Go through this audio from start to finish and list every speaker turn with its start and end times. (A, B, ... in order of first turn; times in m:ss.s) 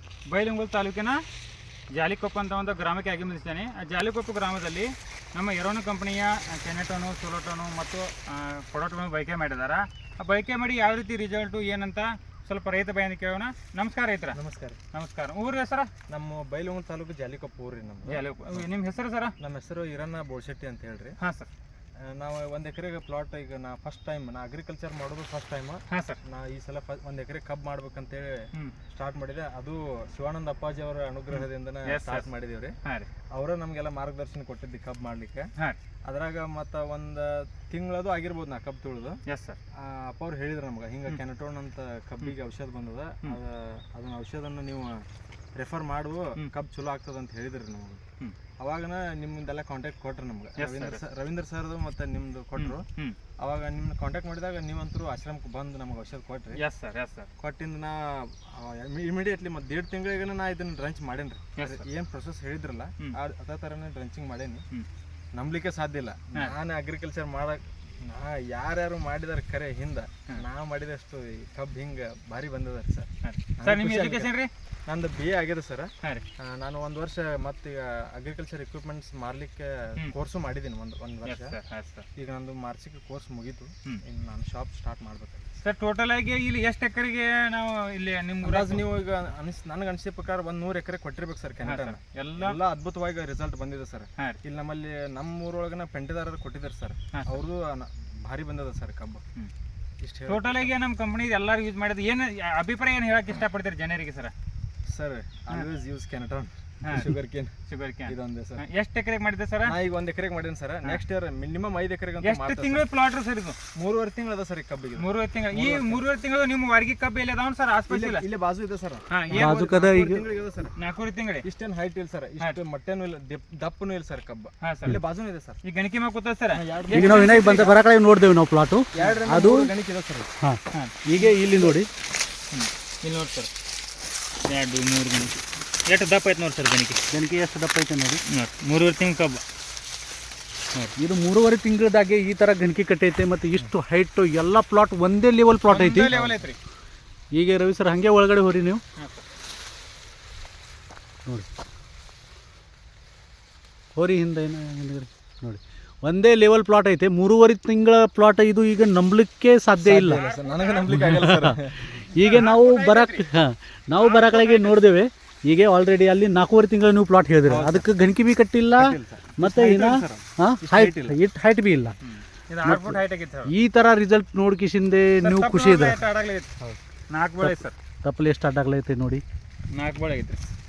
0:00.3-0:01.2 A
0:02.0-0:14.4 A
0:14.3-0:14.8 B
0:14.9-0:15.9 A
0:16.1-0:18.7 B
0:18.1-0:19.3 A
0:19.4-0:21.2 B
0:21.2-0:21.5 A
0:22.0-0:32.8 B
0:25.9-0:26.2 A
0:31.3-0:32.2 A
0:33.3-0:35.5 B
0:36.0-0:39.2 B
0:39.3-0:39.6 A
0:39.8-0:48.0 B
0:48.6-0:52.9 B
0:50.6-0:51.0 A
0:52.6-0:53.2 A
0:53.4-0:56.6 B
0:56.6-0:57.3 A
0:57.4-1:04.6 B
1:01.6-1:01.8 A
1:05.3-1:14.3 B
1:13.2-1:14.5 A
1:14.9-1:21.6 B
1:21.2-1:22.0 A
1:22.2-1:25.4 B
1:25.6-1:28.9 A
1:28.4-1:39.2 B
1:31.6-1:32.6 A
1:40.0-1:40.7 B
1:40.3-1:44.3 A
1:44.9-1:47.6 B
1:46.8-1:47.1 A
1:47.7-1:49.7 A
1:48.1-1:48.6 B
1:49.6-1:52.8 B
1:52.2-1:53.6 A
1:53.7-1:56.0 B
1:55.0-1:58.2 A
1:57.9-2:00.7 B
1:59.1-1:59.8 A
1:59.3-2:00.2 C
2:00.8-2:01.4 A
2:01.4-2:05.6 B
2:04.6-2:05.0 A
2:05.6-2:07.8 A
2:06.5-2:07.8 B
2:06.9-2:09.7 C
2:08.9-2:10.3 B
2:10.4-2:11.9 C
2:10.7-2:11.0 A
2:11.2-2:11.8 B
2:12.5-2:13.5 A
2:14.5-2:17.0 A
2:17.1-2:18.2 C
2:18.3-2:19.4 A
2:21.0-2:26.4 C
2:25.7-2:26.6 A
2:27.3-2:28.8 C
2:29.0-2:29.2 A
2:34.0-2:40.2 C
2:39.7-2:42.0 B
2:40.0-2:41.1 A
2:40.9-2:52.0 C
2:42.2-2:43.3 A
2:44.0-2:44.8 A
2:47.4-2:47.9 B
2:48.8-2:51.2 B
2:52.0-2:53.5 A
2:52.6-2:56.0 C
2:55.2-2:56.5 A
2:57.1-2:57.8 A
2:57.4-2:59.2 C
2:59.7-3:00.5 A